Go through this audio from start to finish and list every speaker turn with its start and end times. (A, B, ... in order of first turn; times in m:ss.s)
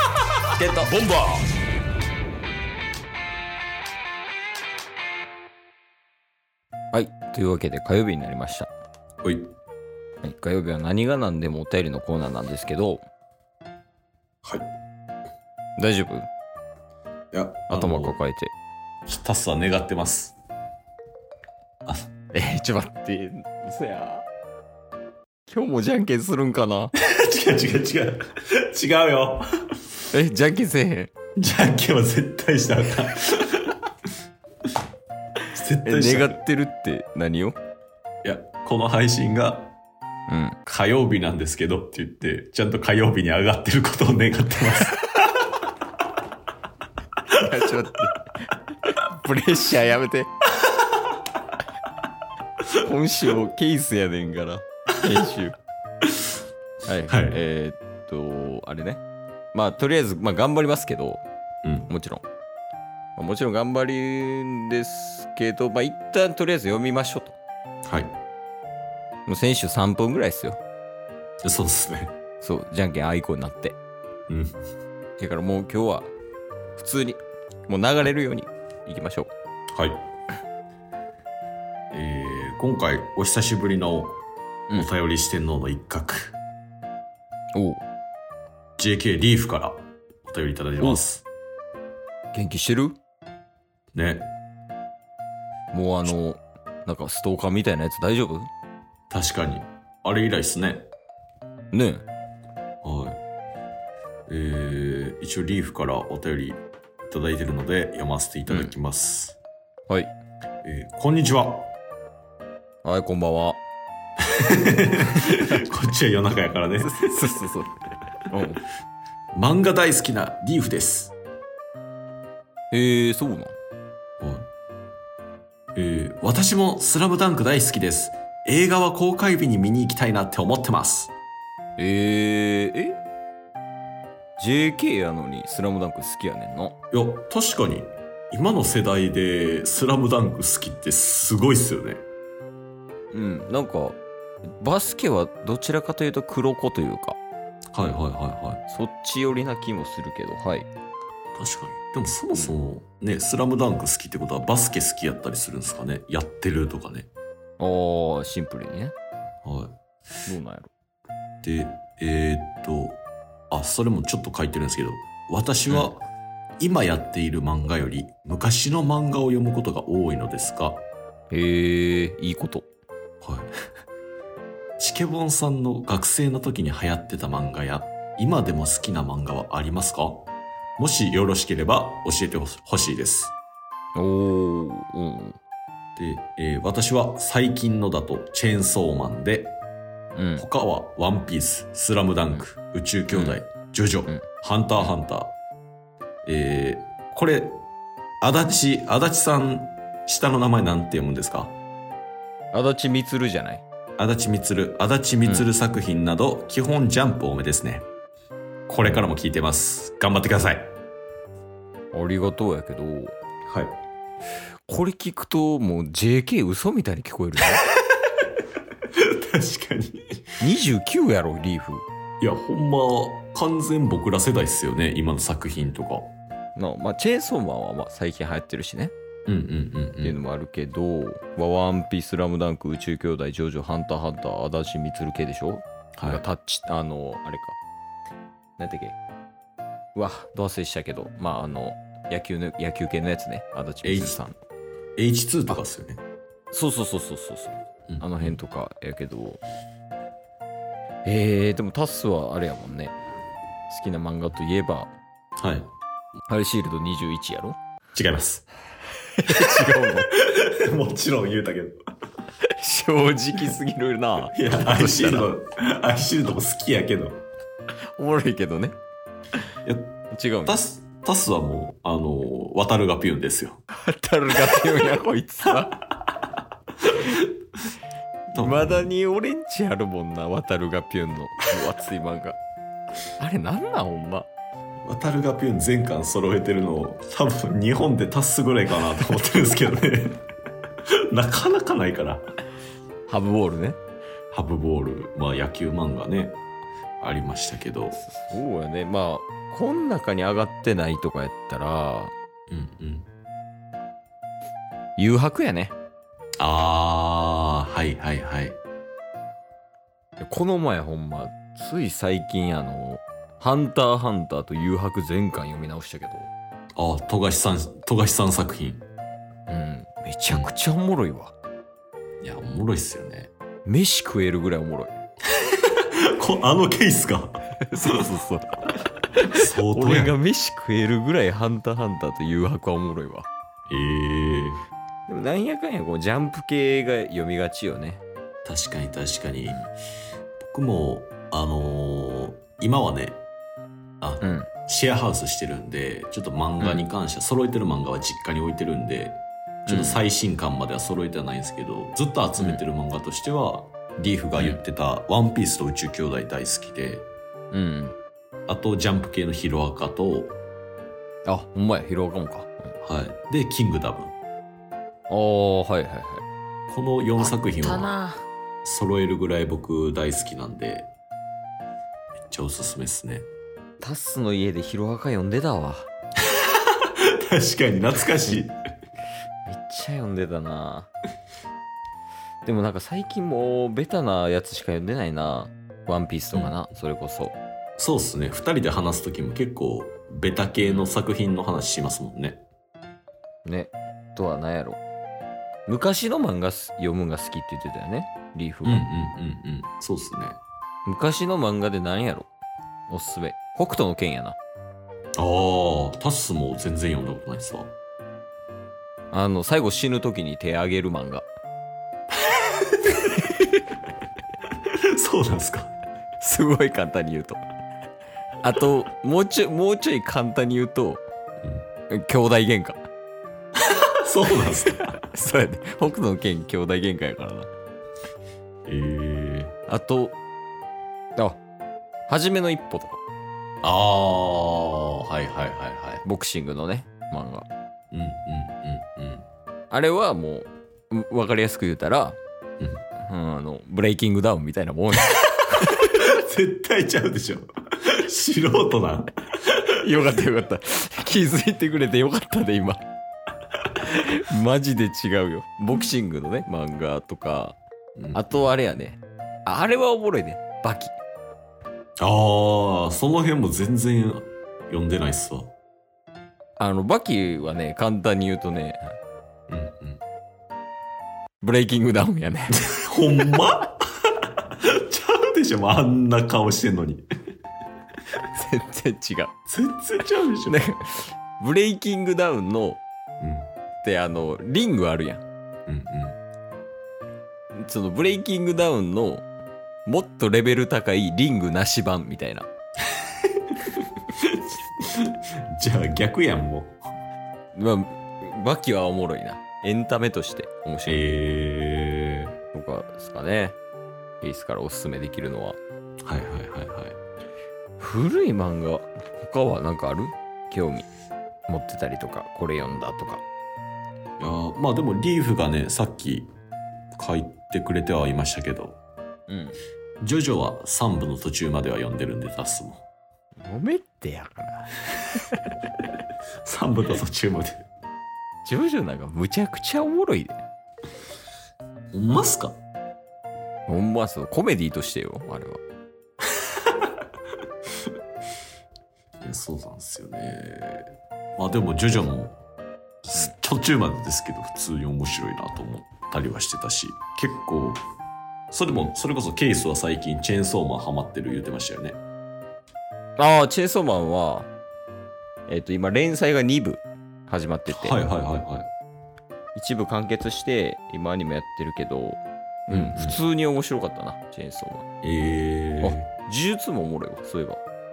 0:00.6-0:00.9 A
0:00.8-0:01.4 B
0:06.9-0:08.7 A
0:09.2-0:09.5 B
0:10.2-0:13.0 A
0:15.8-0:16.3 A
0:17.3-0:18.2 B
0:17.7-0:18.5 A
0:19.0-0:20.4 B
0:22.3-0:24.2 A
0:25.5-0:26.9 A
0:27.0-0:29.4 B
0:30.1-0:31.1 A
0:31.4-0:33.8 B
0:35.5-0:36.4 B
0:35.8-0:37.6 A
0:38.2-0:39.7 B
0:40.3-0:40.6 A
0:40.6-0:45.0 B
0:47.3-0:48.2 A
0:49.0-0:50.3 A
0:52.7-0:55.5 A
0:56.8-0:59.0 A
0:57.1-0:57.4 B
0:59.5-1:01.2 A
1:01.6-1:01.9 B
1:01.9-1:02.2 A
1:03.2-1:07.4 A
1:07.9-1:08.1 B
1:09.3-1:10.6 A
1:11.4-1:12.1 B
1:12.4-1:13.8 A
1:14.3-1:14.5 B
1:15.2-1:16.1 A
1:16.8-1:19.3 A
1:19.7-1:20.0 B
1:21.9-1:24.2 B
1:24.7-1:26.4 B
1:27.5-1:27.8 A
1:28.8-1:31.2 B
1:32.3-1:33.0 A
1:33.9-1:34.3 B
1:35.7-1:38.5 A
1:39.1-1:40.9 B
1:41.7-1:42.0 A
1:42.8-1:43.2 B
1:44.3-1:49.4 B
1:48.5-1:48.7 A
1:50.6-1:51.7 B
1:52.8-1:53.6 A
1:54.4-1:57.2 B
1:55.1-1:55.7 A
1:56.8-1:57.8 A
1:58.3-1:58.6 A
1:59.3-2:01.1 B
2:02.7-2:03.5 A
2:04.2-2:04.5 B
2:05.7-2:11.1 B
2:11.8-2:13.0 A
2:14.4-2:16.7 A
2:16.9-2:22.0 B
2:23.1-2:24.0 A
2:24.6-2:27.2 A
2:27.7-2:28.6 B
2:28.7-2:30.7 A
2:31.3-2:37.1 B
2:37.6-2:38.9 A
2:39.4-2:39.8 B
2:40.2-2:40.7 A
2:41.4-2:46.0 B
2:46.6-2:50.8 B
2:51.3-2:52.6 A
2:53.2-2:53.5 B
2:54.8-3:03.3 B
3:04.0-3:05.4 A
3:06.0-3:09.6 B
3:10.2-3:10.4 A
3:10.4-3:15.4 B
3:13.1-3:13.4 A
3:16.2-3:17.6 B
3:18.2-3:21.6 B
3:22.5-3:23.6 A
3:24.0-3:27.9 B
3:28.7-3:30.7 B
3:31.9-3:33.1 A
3:33.5-3:33.7 B
3:34.7-3:37.6 A
3:39.0-3:40.0 B
3:40.4-3:41.8 A
3:42.2-3:46.1 B
3:46.6-3:48.9 A
3:49.3-3:50.2 B
3:50.0-3:57.6 A
3:56.0-3:56.2 B
3:58.6-3:59.0 A
3:59.9-4:04.4 A
4:03.8-4:04.2 B
4:05.0-4:06.0 B
4:06.5-4:09.4 A
4:07.9-4:08.4 B
4:11.0-4:12.9 A
4:13.7-4:14.9 A
4:15.4-4:15.7 B
4:16.3-4:17.6 A
4:17.9-4:18.5 B
4:19.2-4:20.1 A
4:19.3-4:21.8 B
4:22.6-4:25.3 A
4:24.3-4:27.2 B
4:28.0-4:28.7 A
4:29.6-4:33.6 B
4:30.1-4:30.6 A
4:33.7-4:35.8 A
4:36.9-4:37.3 B
4:38.3-4:42.4 A
4:38.3-4:38.9 B
4:43.2-4:44.3 A
4:44.8-4:50.2 B
4:51.1-4:52.2 B
4:53.1-4:53.8 A
4:54.3-4:56.4 B
4:57.0-4:58.0 B
4:58.0-5:02.1 A
5:02.5-5:03.1 B
5:05.0-5:05.7 A
5:06.4-5:08.6 B
5:10.2-5:16.3 A
5:16.8-5:18.9 B
5:19.5-5:21.3 A
5:22.2-5:23.3 B
5:23.6-5:24.9 A
5:25.7-5:28.0 B
5:27.7-5:33.3 A
5:29.3-5:30.2 B
5:33.7-5:34.6 B
5:35.1-5:38.0 A
5:38.4-5:39.6 B
5:40.4-5:43.2 B
5:44.0-5:57.1 B
5:44.2-5:44.5 A
5:49.7-5:50.0 A
5:52.4-5:52.6 A
5:57.5-5:58.0 A
5:58.5-6:00.4 B
6:01.2-6:02.7 A
6:02.8-6:04.2 B
6:05.1-6:06.2 A
6:06.7-6:07.9 B
6:07.2-6:08.2 A
6:08.6-6:10.9 B
6:12.3-6:13.3 B
6:13.8-6:15.9 A
6:17.0-6:18.6 B
6:19.5-6:20.9 A
6:22.4-6:27.4 A
6:27.8-6:32.4 B
6:30.6-6:30.9 A
6:33.4-6:34.8 A
6:35.7-6:38.8 A
6:38.6-6:40.4 B
6:40.8-6:42.3 A
6:42.9-6:44.4 A
6:45.2-6:47.7 B
6:49.1-6:51.2 A
6:53.2-6:53.6 A
6:54.9-6:55.7 B
6:56.2-6:57.4 A
6:58.4-7:01.0 A
7:01.9-7:02.8 A
7:03.6-7:04.9 B
7:05.0-7:07.5 A
7:08.7-7:09.5 B
7:09.7-7:10.1 A
7:12.1-7:13.0 A
7:13.6-7:16.0 B
7:16.0-7:17.5 A
7:17.9-7:19.2 B
7:19.7-7:22.2 A
7:23.0-7:25.9 A
7:25.8-7:29.6 B
7:29.8-7:32.8 A
7:33.8-7:37.6 A
7:38.0-7:38.4 B
7:38.1-7:40.9 A
7:42.0-7:45.5 B
7:46.6-7:48.9 A
7:49.5-7:50.0 B
7:51.4-7:52.6 A
7:52.6-7:53.8 B
7:54.6-7:57.0 B
7:58.3-7:59.3 A
7:59.5-8:00.6 B
8:00.5-8:02.8 A
8:03.2-8:03.5 B
8:03.8-8:05.2 A
8:05.7-8:06.2 B
8:07.5-8:09.2 A
8:09.8-8:12.5 A
8:13.2-8:16.8 B
8:17.5-8:21.0 A
8:20.9-8:22.3 B
8:22.5-8:23.6 A
8:24.2-8:25.6 A
8:26.0-8:27.0 B
8:27.8-8:30.8 A
8:31.5-8:33.2 A
8:34.2-8:36.3 B
8:37.0-8:38.8 B
8:39.3-8:39.6 A
8:40.0-8:42.8 B
8:43.4-8:45.4 A
8:46.4-8:47.7 B
8:48.4-8:50.4 A
8:51.9-8:52.6 B
8:53.7-8:55.6 A
8:59.2-9:02.4 B
9:03.0-9:07.8 B
9:08.5-9:12.0 B
9:13.2-9:14.5 A
9:15.5-9:18.0 A
9:17.7-9:18.7 B
9:19.5-9:24.8 A
9:22.7-9:23.2 B
9:25.0-9:26.1 B
9:25.8-9:27.6 A